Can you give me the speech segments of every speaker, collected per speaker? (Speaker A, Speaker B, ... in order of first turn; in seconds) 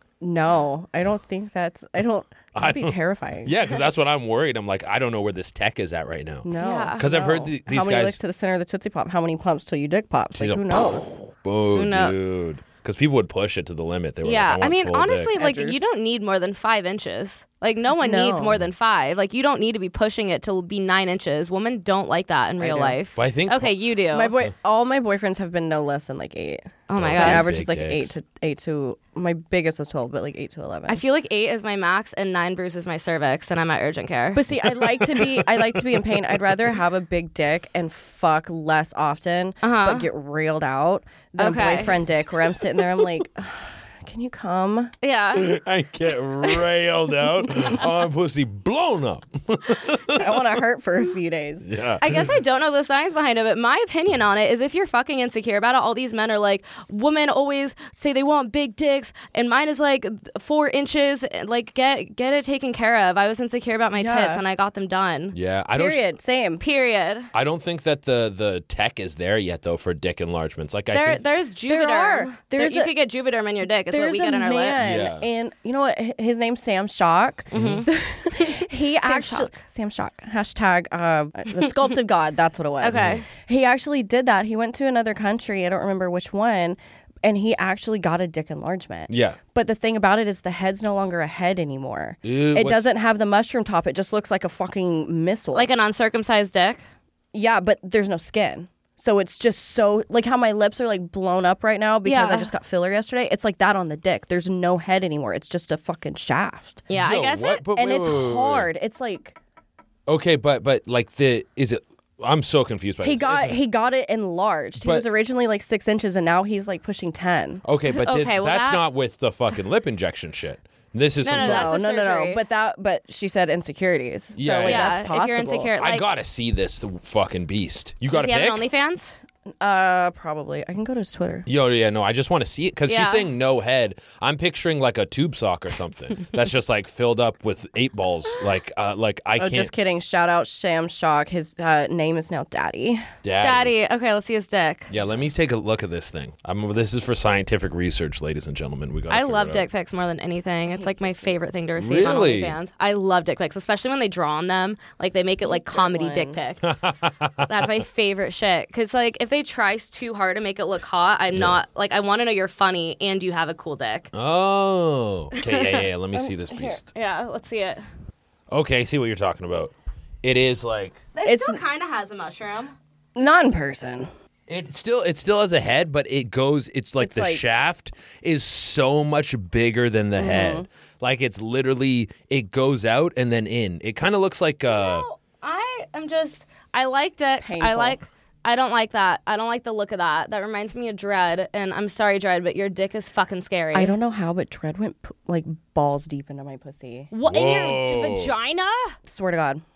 Speaker A: 0.2-3.5, 6.4-11.1, 15.3-15.8, 17.9-18.6, 22.6-23.0, 24.1-31.0, 34.3-44.9, 50.0-51.7, 64.0-64.4, 65.8-66.6, 71.7-73.0, 73.9-95.7, 97.3-106.9, 107.7-109.4, 113.0-117.6, 121.4-125.7, 129.6-131.5, 139.4-143.1, 150.7-151.3, 155.5-156.4, 166.2-166.8, 171.2-171.6, 173.2-174.1, 177.0-177.4, 180.2-180.7, 187.4-188.0, 193.7-197.1, 199.1-199.6
Speaker B: 2.6-8.2, 10.3-15.3, 23.1-23.8, 27.0-28.1, 35.0-35.7, 45.3-50.5, 51.6-52.3, 65.3-66.1, 67.3-71.2, 74.8-75.3, 77.5-77.9, 82.9-83.2, 89.1-89.4, 92.2-92.9, 106.9-108.7, 110.1-113.6, 114.8-115.1, 117.7-121.8, 124.4-125.0, 125.8-128.7, 131.5-139.7, 143.2-143.7, 144.9-149.7, 151.8-152.6, 156.6-157.6, 164.1-166.9, 168.5-169.7, 170.2-171.0, 174.5-185.1, 197.2-198.3
Speaker C: 6.6-7.1, 11.7-12.2, 14.2-24.4, 26.9-27.5, 30.9-34.4, 39.6-40.1, 41.4-42.0, 45.0-45.5, 52.0-65.4, 66.6-67.3, 70.9-75.0, 77.5-79.6, 82.8-83.2, 95.5-96.8, 102.0-102.5, 106.9-107.6, 117.9-118.8, 121.2-122.4, 124.7-126.0, 128.1-129.2, 132.9-133.3, 143.4-144.9, 149.1-156.7, 157.5-164.1, 165.4-165.8, 166.9-167.8, 171.2-172.7, 184.7-193.9, 197.1-199.0